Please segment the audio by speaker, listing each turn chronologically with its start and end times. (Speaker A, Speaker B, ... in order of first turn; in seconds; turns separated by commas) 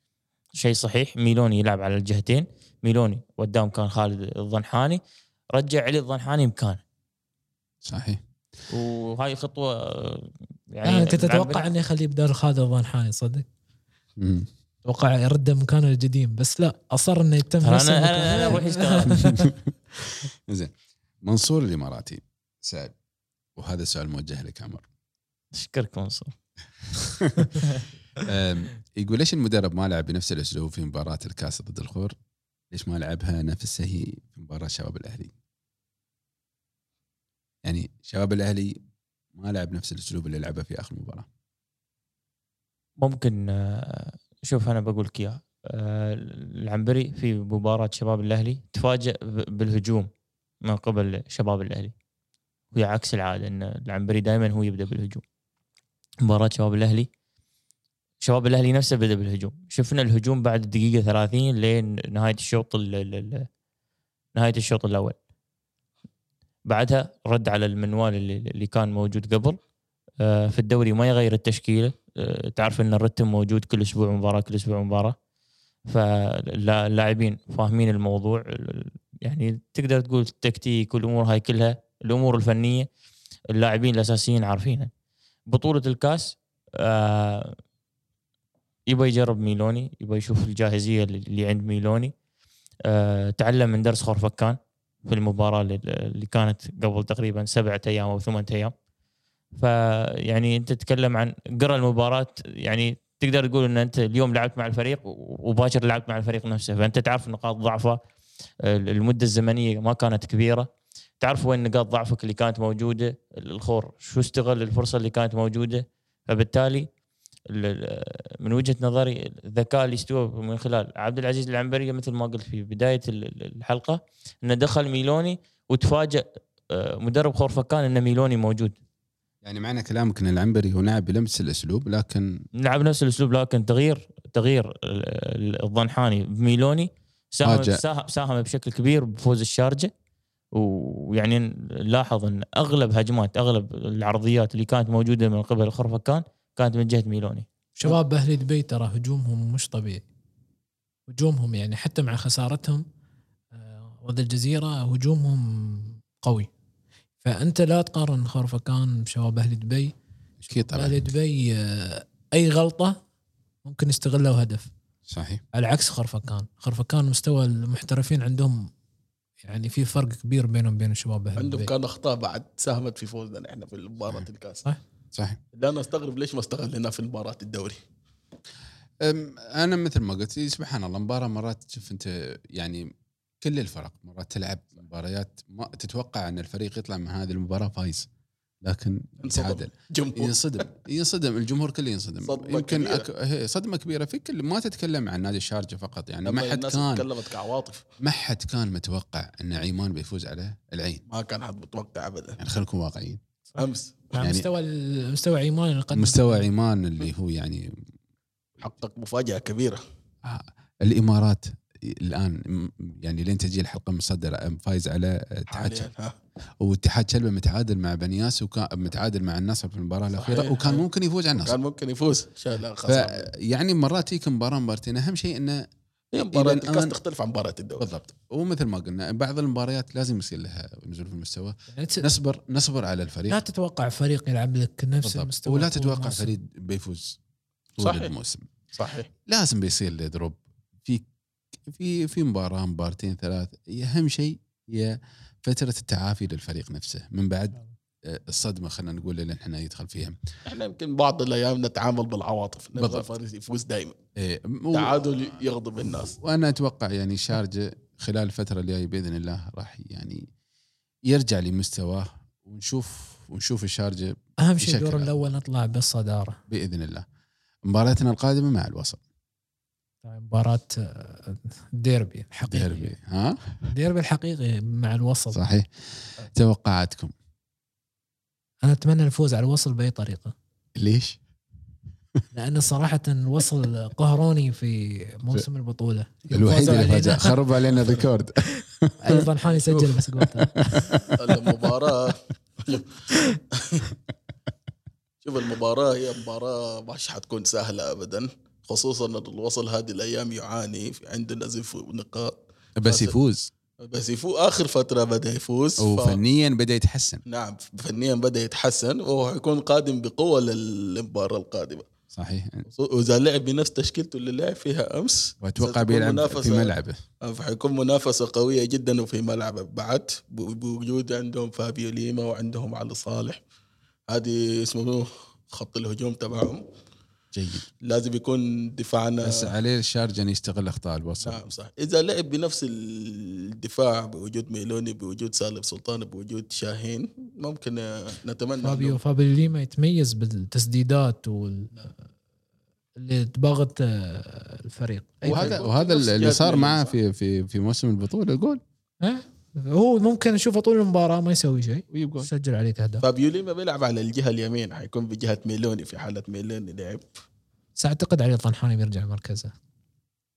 Speaker A: 0.6-5.0, Speaker A: 5.5-6.8, Speaker B: 7.8-8.2, Speaker A: 8.7-11.7, Speaker C: 10.8-13.4, Speaker B: 14.2-14.5, Speaker C: 14.8-19.5, Speaker A: 17.6-19.3, Speaker B: 19.0-19.7, Speaker B: 20.5-22.9, Speaker B: 23.6-24.8, Speaker A: 25.5-26.3, Speaker B: 27.2-27.5, Speaker A: 27.6-27.8, Speaker B: 28.2-32.1, Speaker B: 32.7-35.3, Speaker B: 37.6-38.8, Speaker B: 39.3-41.3, Speaker A: 43.0-50.1, Speaker A: 50.6-51.9, Speaker A: 52.7-55.2, Speaker A: 56.2-57.1, Speaker A: 58.2-63.5, Speaker A: 64.3-65.2, Speaker A: 66.7-69.6, Speaker A: 70.2-75.2, Speaker A: 75.9-82.9, Speaker A: 83.5-84.9, Speaker A: 85.5-87.5, Speaker A: 88.9-92.1, Speaker A: 92.9-98.7, Speaker A: 99.5-108.0, Speaker A: 108.6-110.7, Speaker A: 111.2-116.9, Speaker A: 117.5-128.7, Speaker B: 129.4-132.4, Speaker A: 132.6-139.9, Speaker B: 137.4-137.8, Speaker A: 140.5-147.5, Speaker C: 147.8-150.0, Speaker C: 151.1-152.8, Speaker C: 153.5-156.5, Speaker C: 157.2-159.9, Speaker B: 160.4-161.1, Speaker C: 160.5-163.0, Speaker C: 163.6-164.7, Speaker B: 165.1-165.4, Speaker C: 165.5-168.7, Speaker C: 169.4-171.7, Speaker D: 171.4-174.6, Speaker D: 175.5-177.8, Speaker B: 179.0-182.9, Speaker B: 183.4-188.1, Speaker B: 188.6-197.1, Speaker D: 189.2-190.6, Speaker D: 192.2-193.1, Speaker D: 196.2-197.8, Speaker B: 198.0-201.0, Speaker D: 201.1-202.4, Speaker B: 202.4-203.2, Speaker C: 203.5-206.4, Speaker D: 203.6-204.1, Speaker B: 204.2-204.4, Speaker B: 205.9-207.7, Speaker D: 208.6-209.8, Speaker B: 210.2-215.9, Speaker D: 215.5-216.2, Speaker B: 216.6-221.6, Speaker D: 220.2-220.8, Speaker D: 221.4-223.3, Speaker B: 222.8-225.6, Speaker D: 226.1-227.9, Speaker B: 226.2-226.9, Speaker B: 227.8-233.4, Speaker C: 231.7-232.1, Speaker C: 233.3-236.3, Speaker B: 235.0-237.2, Speaker B: 237.8-238.5, Speaker D: 237.8-238.1, Speaker D: 238.8-239.1, Speaker B: 239.2-241.0, Speaker B: 241.7-250.2, Speaker D: 250.4-253.9, Speaker B: 252.8-253.1, Speaker B: 254.2-255.0, Speaker D: 254.7-256.1, Speaker B: 256.2-260.2, Speaker B: 261.1-265.2, Speaker C: 264.4-266.4, Speaker B: 266.5-267.1, Speaker B: 267.6-269.0, Speaker C: 270.0-272.9, Speaker B: 272.5-273.7, Speaker C: 273.7-275.4, Speaker B: 275.3-277.1, Speaker C: 278.6-280.3, Speaker B: 280.8-281.2, Speaker C: 282.3-287.4, Speaker B: 286.3-291.4, Speaker C: 289.0-290.6, Speaker D: 291.2-292.9, Speaker D: 293.5-293.9, Speaker D: 295.2-303.1, Speaker B: 302.8-303.5, Speaker D: 303.8-306.2, Speaker B: 305.8-307.2, Speaker D: 307.3-311.9, Speaker B: 312.1-312.6, Speaker D: 312.7-316.7, Speaker B: 315.4-317.0, Speaker D: 317.2-323.4, Speaker D: 324.1-326.6, Speaker B: 327.3-327.6, Speaker D: 327.8-329.5, Speaker B: 329.2-331.4, Speaker D: 331.2-339.0, Speaker C: 338.6-341.9, Speaker C: 343.0-345.6, Speaker B: 345.2-348.6, Speaker D: 345.2-346.9, Speaker C: 349.0-353.0, Speaker B: 351.9-352.3, Speaker D: 353.0-357.1, Speaker C: 357.8-359.5